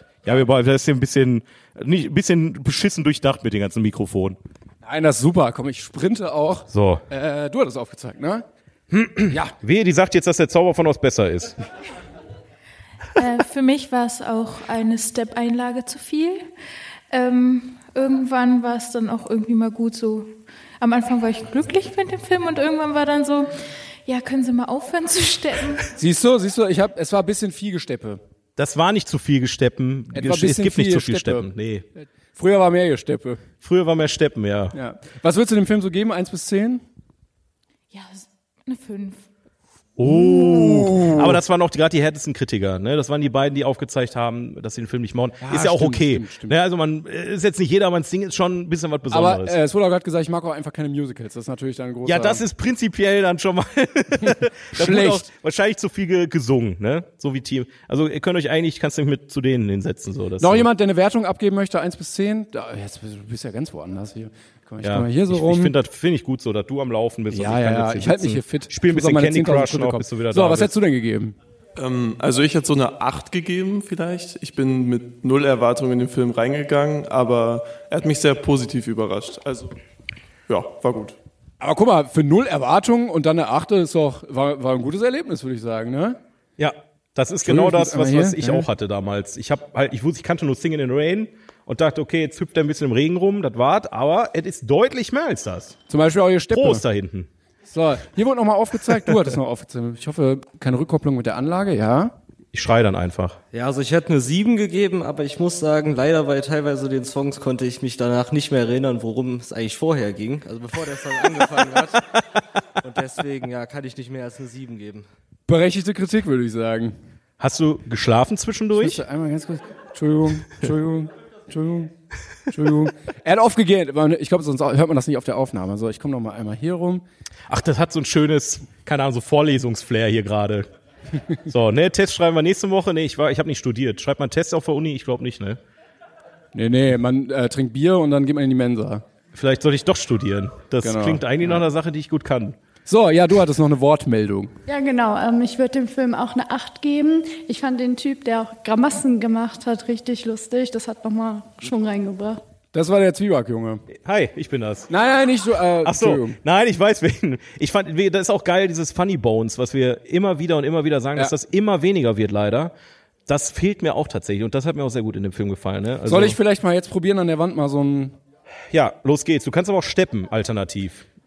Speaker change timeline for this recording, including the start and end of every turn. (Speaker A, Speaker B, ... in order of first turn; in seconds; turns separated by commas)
Speaker A: 0.2-4.4, Speaker B: 4.8-8.4, Speaker A: 6.7-7.0, Speaker A: 8.9-11.6, Speaker B: 9.3-9.5, Speaker C: 13.2-16.5, Speaker C: 17.1-23.5, Speaker C: 24.1-25.9, Speaker B: 25.9-28.2, Speaker A: 28.6-31.9, Speaker B: 30.1-33.4, Speaker A: 33.6-34.8, Speaker B: 34.7-36.8, Speaker C: 37.9-39.3, Speaker A: 40.0-49.6, Speaker B: 40.1-41.4, Speaker B: 45.4-46.6, Speaker B: 49.1-52.4, Speaker A: 52.0-60.7, Speaker B: 54.3-55.3, Speaker B: 60.4-65.7, Speaker A: 64.8-70.7, Speaker B: 67.3-71.4, Speaker D: 71.8-79.8, Speaker D: 80.5-81.2, Speaker B: 81.6-86.2, Speaker A: 86.6-95.8, Speaker B: 87.4-88.7, Speaker B: 95.9-96.8, Speaker A: 96.5-97.3, Speaker B: 97.7-102.2, Speaker A: 102.5-103.4, Speaker E: 103.5-112.1, Speaker E: 112.8-115.1, Speaker B: 115.5-117.0, Speaker A: 117.4-119.0, Speaker B: 118.8-121.9, Speaker B: 122.5-127.0, Speaker A: 127.5-130.7, Speaker A: 131.5-135.6, Speaker B: 136.6-139.1, Speaker A: 139.3-142.6, Speaker B: 140.8-141.6, Speaker B: 142.9-144.6, Speaker F: 144.7-152.4, Speaker B: 152.7-153.9, Speaker A: 153.9-154.9, Speaker B: 154.9-156.4, Speaker A: 155.8-162.7, Speaker A: 163.3-166.4, Speaker B: 166.1-168.2, Speaker A: 168.7-171.1